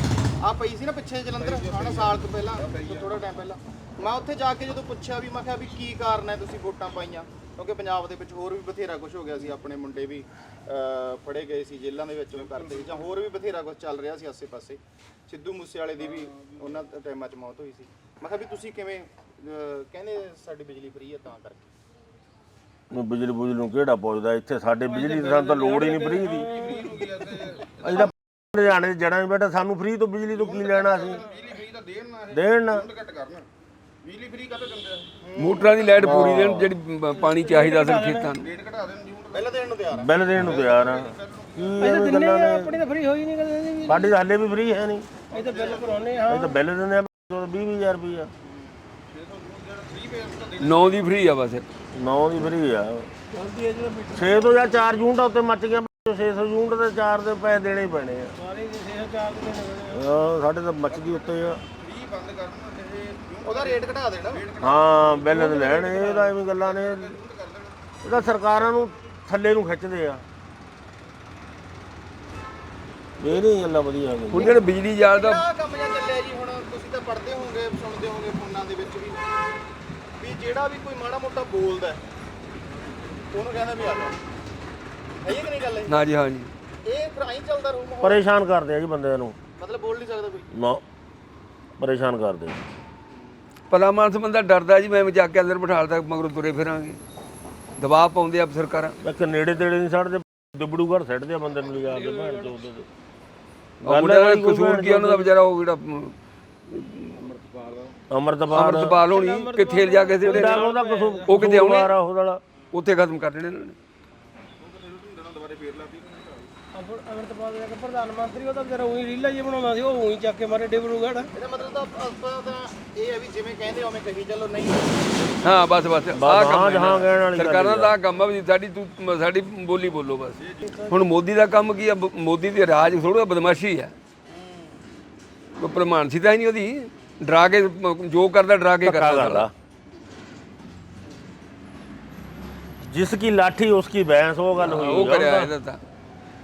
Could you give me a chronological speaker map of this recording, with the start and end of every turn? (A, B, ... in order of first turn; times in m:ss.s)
0:00.4-0:21.7 A
0:01.4-0:03.3 B
0:12.3-0:13.1 B
0:16.0-0:16.8 B
0:22.9-0:26.6 C
0:24.8-0:27.3 D
0:26.4-0:28.1 B
0:27.8-0:31.2 C
0:30.3-0:33.5 B
0:32.3-0:32.9 C
0:34.0-0:35.1 B
0:35.2-0:36.3 A
0:35.4-0:38.4 E
0:36.0-0:36.7 C
0:37.1-0:38.3 D
0:38.4-0:39.6 B
0:39.3-0:40.1 A
0:39.9-0:42.7 C
0:40.4-0:42.0 B
0:41.8-0:44.1 D
0:43.9-0:45.2 C
0:45.3-0:46.6 D
0:45.3-0:46.2 B
0:45.4-0:45.9 A
0:46.3-0:48.3 C
0:48.4-0:49.0 A
0:49.1-0:51.3 B
0:50.6-0:51.6 E
0:51.9-0:53.1 C
0:53.3-0:54.7 D
0:54.1-0:58.3 C
0:58.4-1:00.1 D
0:59.9-1:01.6 C
1:00.9-1:05.5 B
1:03.4-1:04.4 A
1:04.6-1:07.2 C
1:05.2-1:06.3 D
1:06.5-1:08.0 B
1:08.0-1:10.2 C
1:13.2-1:14.6 C
1:14.3-1:15.4 E
1:15.1-1:19.2 A
1:20.2-1:22.0 A
1:23.3-1:24.2 A
1:25.2-1:26.0 A
1:25.9-1:26.5 E
1:26.8-1:28.2 A
1:28.0-1:29.4 C
1:29.6-1:30.5 A
1:30.5-1:30.8 C
1:31.8-1:32.6 C
1:33.1-1:33.5 A
1:33.7-1:37.0 E
1:37.8-1:39.0 E
1:39.0-1:42.8 C
1:41.8-1:42.6 D
1:43.8-1:45.3 C
1:43.8-1:46.1 E
1:46.7-1:47.4 E
1:48.1-1:49.0 C
1:48.5-1:50.7 E
1:49.0-1:51.3 D
1:50.2-1:52.4 C
1:51.3-1:51.9 E
1:52.7-1:53.8 E
1:54.6-1:56.5 B
1:56.7-2:01.3 D
2:01.3-2:05.4 A
2:05.4-2:13.9 E
2:06.1-2:08.0 C
2:10.4-2:10.8 B
2:10.6-2:11.0 D
2:14.2-2:14.8 A
2:15.6-2:19.5 E
2:18.8-2:19.5 C
2:22.8-2:25.5 C
2:24.6-2:25.8 E